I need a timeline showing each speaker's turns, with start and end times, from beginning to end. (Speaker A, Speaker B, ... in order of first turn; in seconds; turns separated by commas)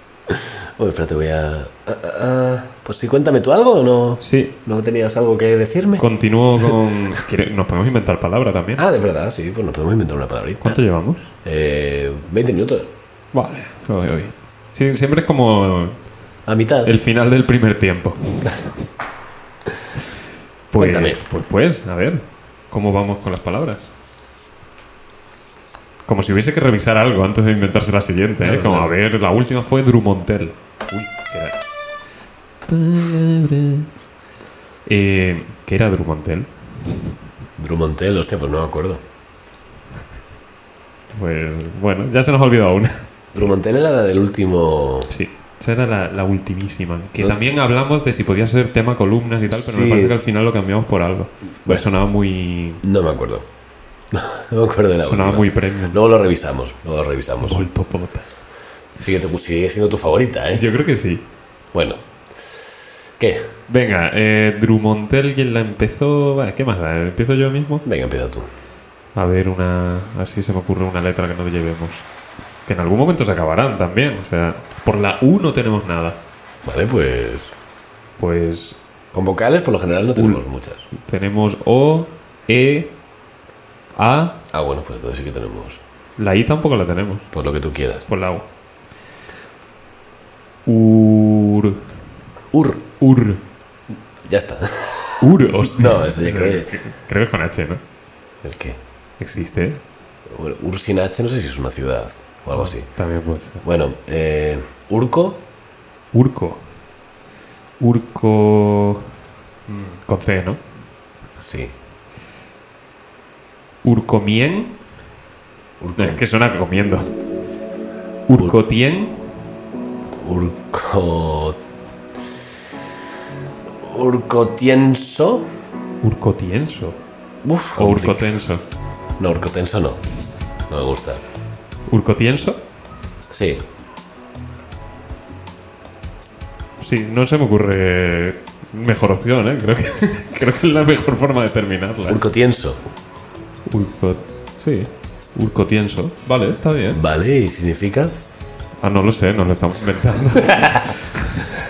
Speaker A: 0.3-6.1, Speaker B: 4.2-4.5, Speaker B: 6.0-8.8, Speaker A: 8.8-10.8, Speaker B: 10.6-11.3, Speaker A: 11.4-12.9, Speaker B: 13.3-16.0, Speaker A: 16.5-16.9, Speaker B: 16.8-18.8, Speaker A: 18.4-18.7, Speaker B: 20.7-23.9, Speaker A: 20.8-21.2, Speaker B: 26.1-31.6, Speaker A: 28.4-28.9, Speaker B: 32.6-33.9, Speaker B: 34.9-37.0, Speaker A: 37.6-39.0, Speaker B: 41.1-43.0, Speaker A: 43.3-45.1, Speaker B: 45.1-52.8, Speaker A: 49.5-50.1, Speaker A: 52.8-53.5, Speaker A: 54.1-57.6, Speaker B: 55.0-56.0, Speaker B: 57.4-58.3, Speaker A: 59.0-60.6, Speaker B: 60.5-61.2, Speaker A: 61.7-62.0, Speaker A: 63.2-63.5, Speaker B: 63.7-67.8, Speaker A: 67.8-68.5, Speaker B: 69.1-72.1, Speaker B: 72.7-76.2, Speaker A: 76.6-77.5, Speaker B: 78.2-78.8, Speaker A: 79.1-80.8, Speaker B: 80.9-82.9, Speaker B: 83.9-84.4, Speaker A: 84.5-85.8, Speaker B: 86.2-87.3, Speaker A: 87.3-88.0, Speaker B: 88.1-88.5, Speaker B: 90.7-91.8, Speaker A: 92.5-92.8, Speaker B: 93.0-93.4, Speaker A: 94.2-96.7, Speaker B: 95.2-97.8, Speaker A: 98.4-98.8, Speaker B: 99.2-99.8, Speaker A: 100.3-102.9, Speaker B: 102.5-103.6, Speaker A: 103.6-105.4, Speaker B: 106.1-106.6, Speaker B: 107.8-109.1, Speaker B: 109.7-110.6, Speaker A: 111.4-111.7, Speaker B: 113.8-114.7, Speaker A: 115.8-116.2, Speaker B: 116.0-117.1, Speaker B: 118.3-119.2, Speaker A: 120.2-121.6, Speaker A: 123.8-125.5, Speaker B: 126.0-127.0, Speaker A: 127.4-128.3, Speaker B: 127.8-128.6, Speaker A: 129.2-130.0, Speaker A: 130.7-131.2, Speaker B: 131.9-132.6, Speaker A: 133.3-133.6, Speaker B: 136.8-142.2, Speaker A: 142.1-142.8, Speaker B: 143.7-147.0, Speaker A: 146.9-148.1, Speaker B: 148.8-151.4, Speaker A: 150.5-150.9